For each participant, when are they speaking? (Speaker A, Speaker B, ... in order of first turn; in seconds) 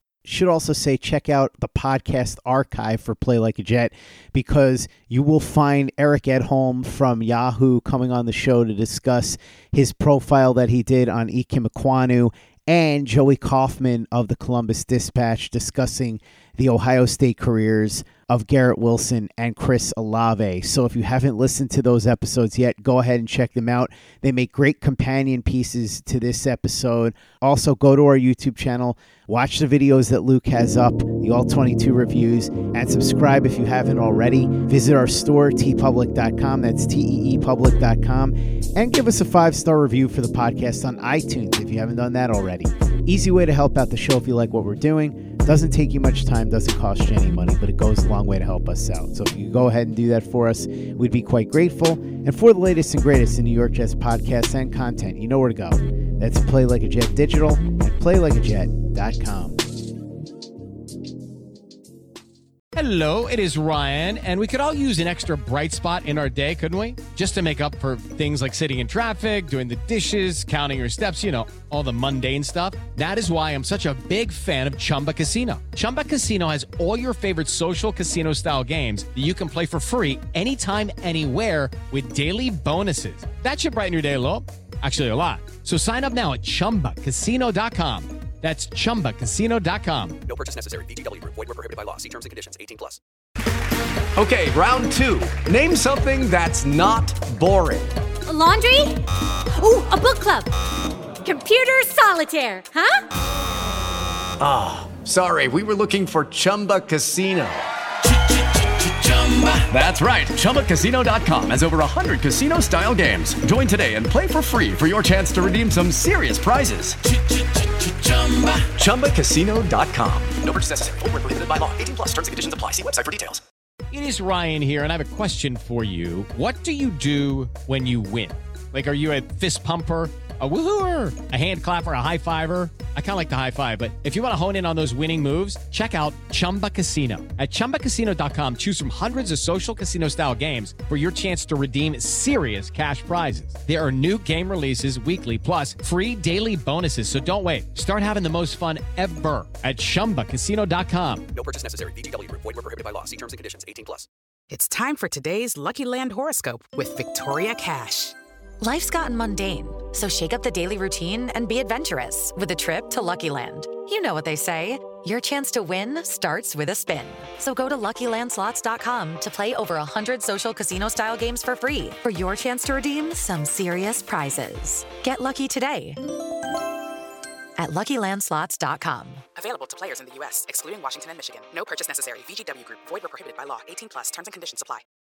Speaker A: 0.2-59.6
Speaker B: 62.7-90.2, 123.9-151.3
Speaker C: 90.2-93.0, 118.1-118.5, 120.4-123.4, 151.3-154.1
Speaker D: 94.2-97.9, 104.4-107.7, 109.5-117.0, 118.7-120.4
Speaker E: 98.3-100.5, 101.2-103.0
Speaker F: 154.5-158.1, 179.3-184.8
Speaker G: 158.6-176.0, 177.6-179.2